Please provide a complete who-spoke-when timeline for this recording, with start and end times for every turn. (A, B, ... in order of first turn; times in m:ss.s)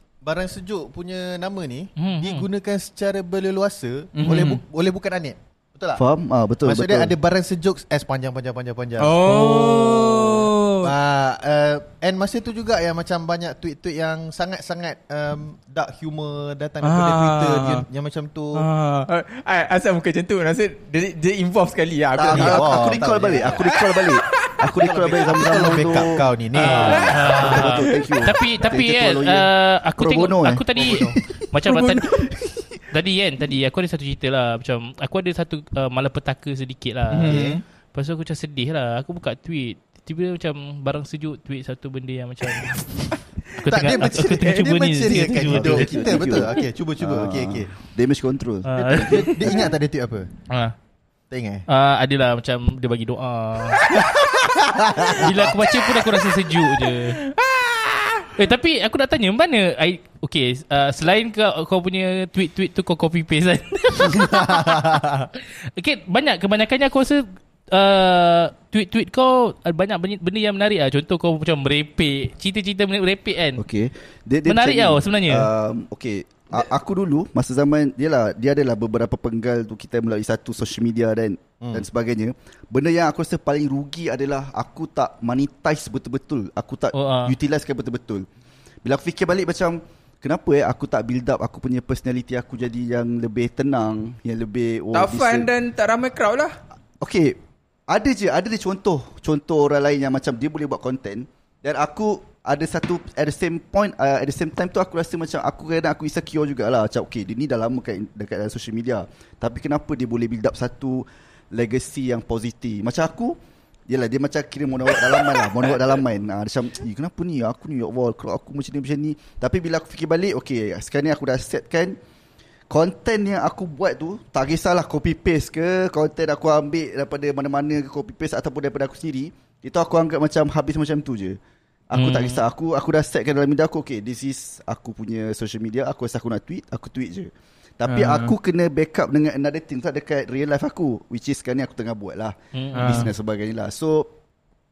0:00.2-0:06.0 A
0:02.0-0:02.5 B
0:04.2-0:04.6 C
0:06.0-0:07.1 D
0:06.6-0:18.6 A
0:09.0-0:11.0 C
0:16.8-0:17.9 C
0:18.5-0:22.8 C
0:22.2-0:32.6 D
0:22.3-0:23.6 A
0:23.7-0:24.9 C
0:24.8-0:27.5 A
0:26.6-0:28.2 C
0:26.6-0:32.1 B
0:30.8-0:31.0 A
0:32.9-0:43.1 B
0:37.1-0:37.6 C
0:37.3-0:37.6 A
0:43.6-0:47.7 A
0:43.6-0:45.9 B
0:45.1-0:45.8 C
0:45.5-0:49.8 D
0:48.6-0:49.5 B
0:48.8-0:50.3 A
0:50.5-0:50.7 B
0:51.3-0:51.7 A
0:51.7-0:53.8 B
0:53.9-0:55.6 A
0:55.1-0:57.2 B
0:57.2-0:58.3 C
0:58.4-1:13.6 B
1:04.3-1:05.3 A
1:13.6-1:28.3 D
1:14.5-1:15.5 B
1:26.9-1:27.4 B
1:28.8-1:35.5 D
1:34.9-1:36.6 C
1:37.0-1:37.4 D
1:37.9-1:53.4 D
1:53.9-2:02.0 D
2:02.7-2:11.4 D
2:11.9-2:24.1 D
2:12.0-2:12.4 B
2:17.9-2:18.3 C
2:22.5-2:23.1 B
2:22.8-2:23.1 C